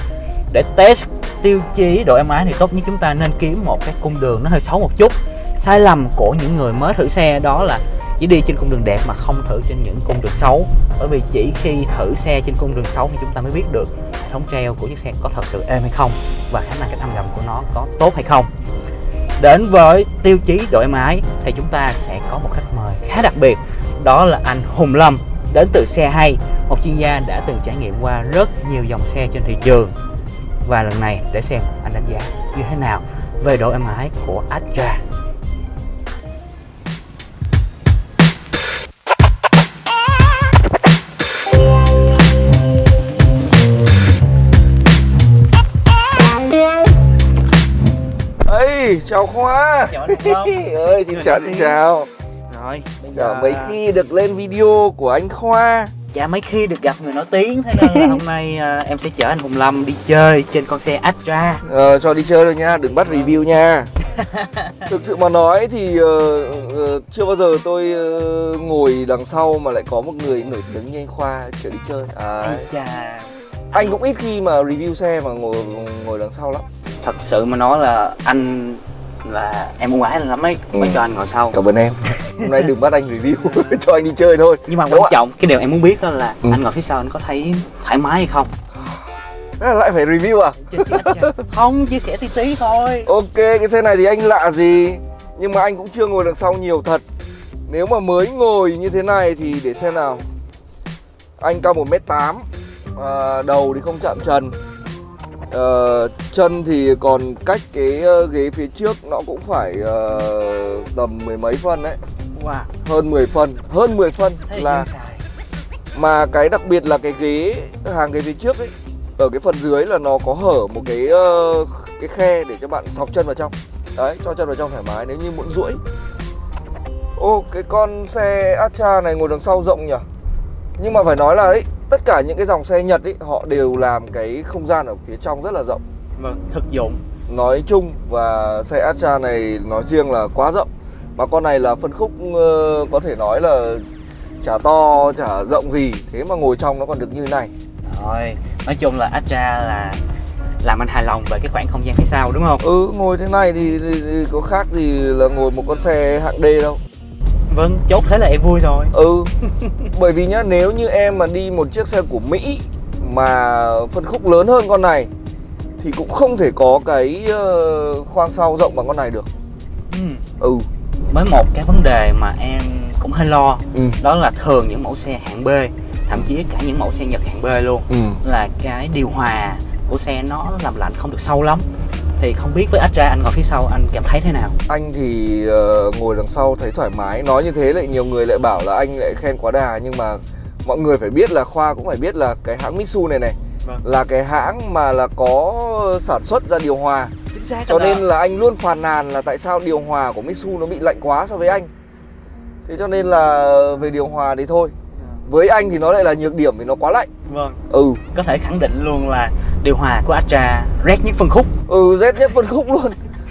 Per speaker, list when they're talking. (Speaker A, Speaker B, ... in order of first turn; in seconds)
Speaker A: 0.5-18.5, 19.4-29.9, 30.6-35.0, 49.9-51.8, 52.5-53.8, 56.1-61.6, 64.1-64.9, 72.4-74.0, 77.0-81.5, 82.2-82.7, 83.4-83.8, 84.7-88.5, 90.6-93.1, 112.3-112.7, 114.5-115.2, 136.2-137.0, 147.9-150.0, 150.6-152.6, 157.5-158.9, 159.4-159.8, 169.9-170.2, 171.1-181.7, 182.2-184.6, 197.3-198.0, 207.3-207.6, 208.1-211.5
Speaker B: 48.4-52.1, 53.1-55.9, 57.7-58.2, 61.6-63.9, 64.8-72.7, 73.7-76.6, 80.7-81.0, 81.5-85.1, 89.6-91.4, 93.0-97.0, 97.7-100.2, 101.4-104.5, 105.5-112.0, 112.8-114.9, 115.9-125.8, 127.2-130.0, 130.8-135.8, 137.3-143.8, 144.4-147.5, 152.6-156.8, 158.9-159.3, 159.9-165.1, 165.8-169.3, 170.4-170.7, 173.7-174.0, 177.9-178.2, 184.7-197.1, 197.7-201.7, 202.7-204.7, 205.2-207.1, 207.7-208.0, 211.7-213.0